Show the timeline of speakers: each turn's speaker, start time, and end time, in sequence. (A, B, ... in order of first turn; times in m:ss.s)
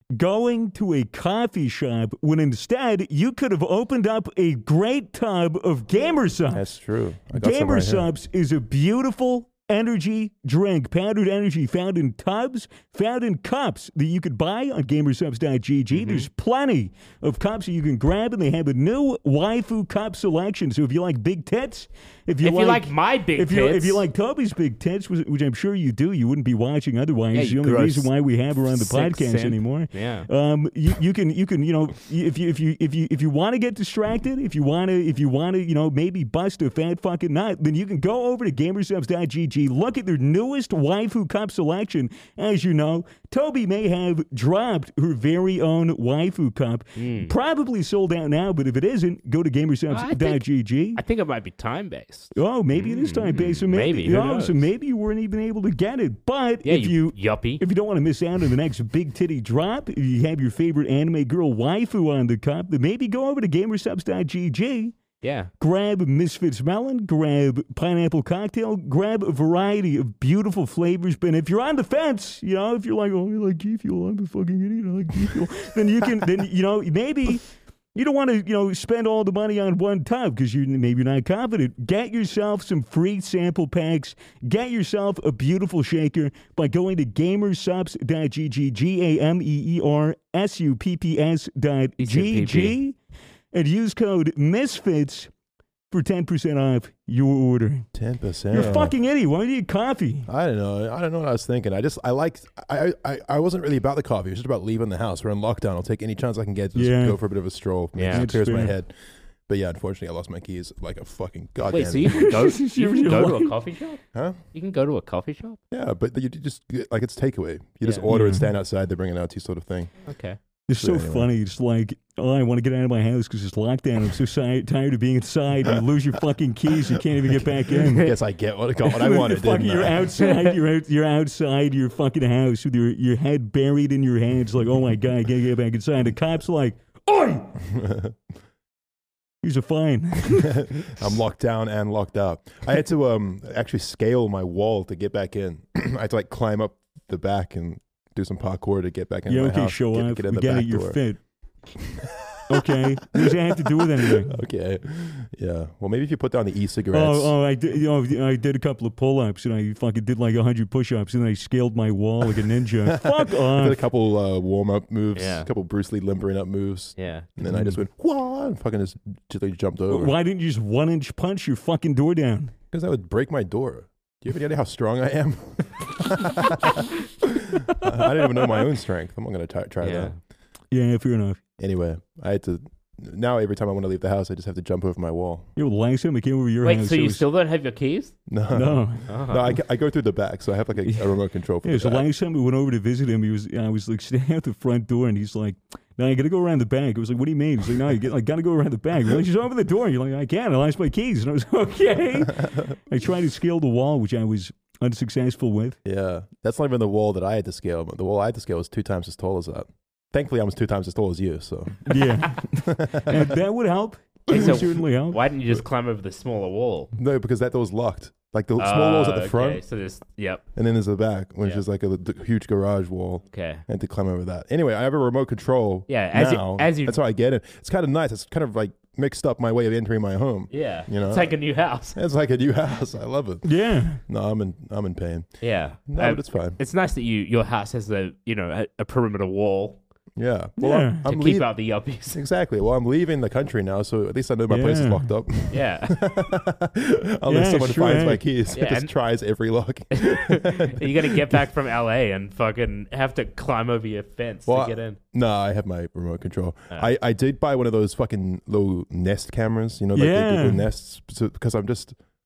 0:00.1-0:06.7 A
0:06.5-0:08.1 B
0:07.3-0:51.0 A
0:15.9-0:16.3 C
0:22.4-0:24.1 C
0:27.3-0:28.1 C
0:28.7-0:30.3 C
0:47.0-0:47.3 C
0:49.9-0:50.4 C
0:51.0-0:54.6 C
0:52.4-1:05.0 A
0:56.6-0:57.6 C
1:05.2-1:05.5 C
1:05.6-1:33.0 A
1:32.0-1:32.8 C
1:33.5-1:35.3 A
1:35.9-1:37.9 A
1:37.9-1:39.0 B
1:38.5-1:40.3 A
1:40.3-1:49.0 B
1:46.8-1:47.2 A
1:48.0-1:48.3 C
1:48.1-1:48.8 A
1:49.5-1:52.3 B
1:51.7-1:55.6 C
1:52.0-1:53.6 A
1:54.1-1:54.4 B
1:55.7-1:59.9 B
1:58.1-1:58.5 A
2:00.1-2:00.4 C
2:00.7-2:08.1 A
2:00.8-2:01.3 B
2:07.8-2:10.2 B
2:08.8-2:17.6 A
2:17.6-2:18.2 B
2:19.4-2:21.1 A
2:20.4-2:31.0 B
2:29.3-2:31.2 A
2:31.9-2:37.4 B
2:32.5-2:34.4 A
2:36.9-2:43.9 A
2:42.9-2:50.1 B
2:45.2-2:45.5 C
2:47.0-2:47.3 C
2:47.4-2:47.8 A
2:49.9-2:52.5 A
2:52.7-3:00.1 B
2:57.9-2:58.5 A
2:59.8-3:00.1 C
3:00.7-3:01.4 A
3:01.6-3:05.5 B
3:05.6-3:07.2 A
3:06.6-3:08.2 C
3:08.3-3:12.1 B
3:08.5-3:09.0 A
3:09.1-3:09.6 C
3:10.8-3:25.8 A
3:22.4-3:22.8 B
3:25.8-3:33.3 B
3:31.9-3:35.2 A
3:34.3-3:36.9 C
3:37.0-3:39.6 B
3:38.6-3:40.5 C
3:40.6-3:51.4 B
3:43.3-3:43.6 C
3:45.9-3:47.0 C
3:50.5-3:52.0 C
3:51.9-3:55.3 B
3:53.4-3:54.0 A
3:55.4-3:59.8 C
3:55.9-3:56.6 B
4:00.2-4:01.5 B
4:00.6-4:01.0 A
4:01.1-4:02.2 C
4:02.1-4:11.3 B
4:04.5-4:05.1 A
4:05.5-4:06.3 C
4:07.3-4:08.2 A
4:08.5-4:08.9 C
4:09.9-4:15.0 C
4:14.5-4:22.0 B
4:19.9-4:20.7 A